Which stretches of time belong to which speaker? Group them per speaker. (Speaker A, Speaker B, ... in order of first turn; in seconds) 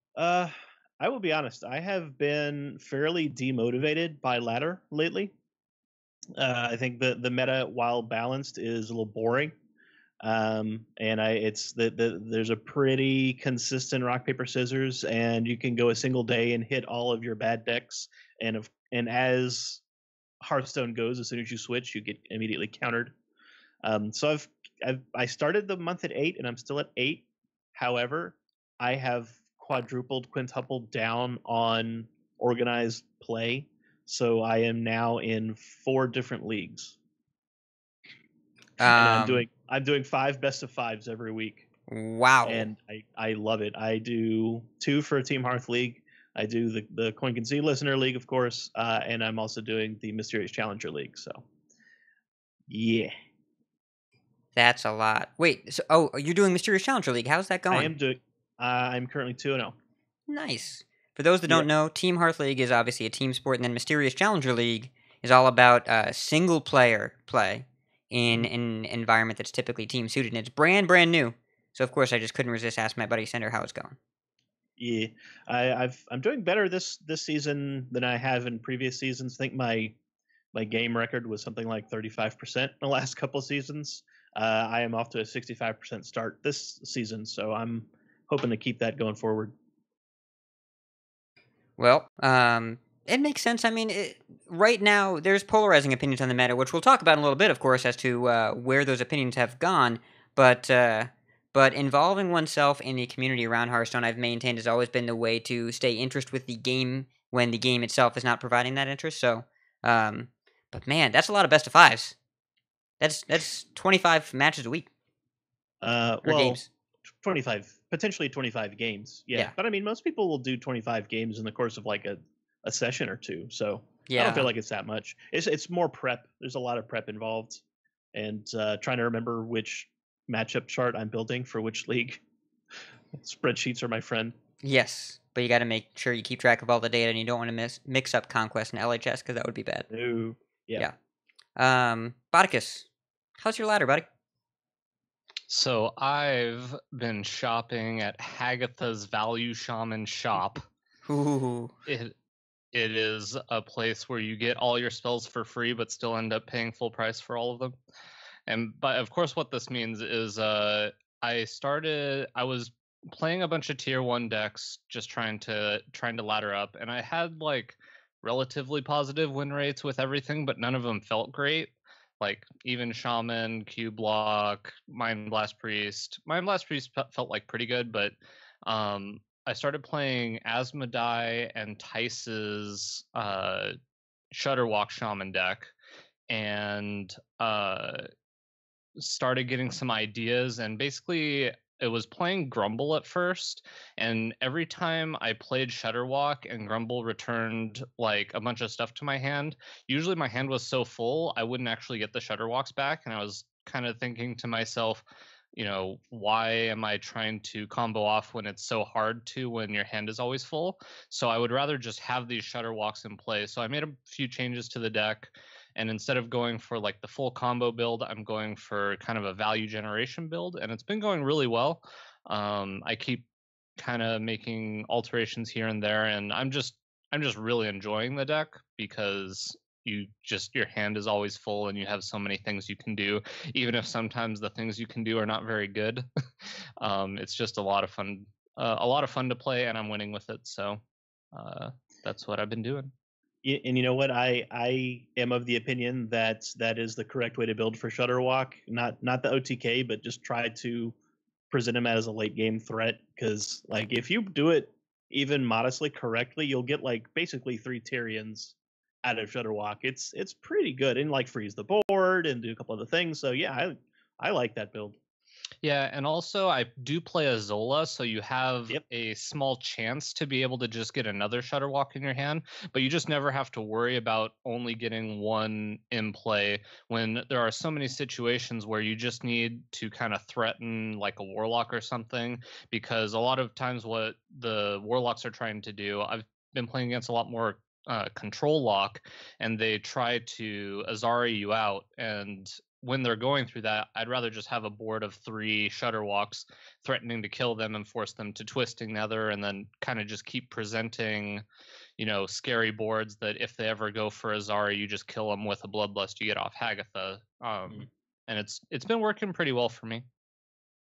Speaker A: 0.2-5.3, 6.4-9.5, 10.2-19.8, 20.4-23.1, 23.8-37.0, 38.8-41.7, 42.5-51.4, 52.7-53.1, 57.7-59.8, 74.8-80.0, 80.5-89.5, 115.8-116.6, 117.2-127.6, 128.1-132.2, 133.1-134.3, 139.9-140.9, 243.4-250.9, 251.5-265.0
Speaker B: 38.8-39.5, 41.9-42.7, 54.5-57.9, 60.3-74.0, 91.8-112.2, 113.0-114.9, 116.2-116.7, 124.1-124.5, 134.6-139.9, 141.6-142.9, 143.4-144.1, 151.1-151.7
Speaker C: 145.5-150.7, 151.9-152.1, 152.7-157.8, 158.5-178.2, 178.7-183.8, 184.3-185.7, 186.3-188.1, 189.0-205.0, 205.6-223.2, 223.8-236.1, 236.8-240.8, 241.3-242.9, 265.6-301.4, 302.0-310.1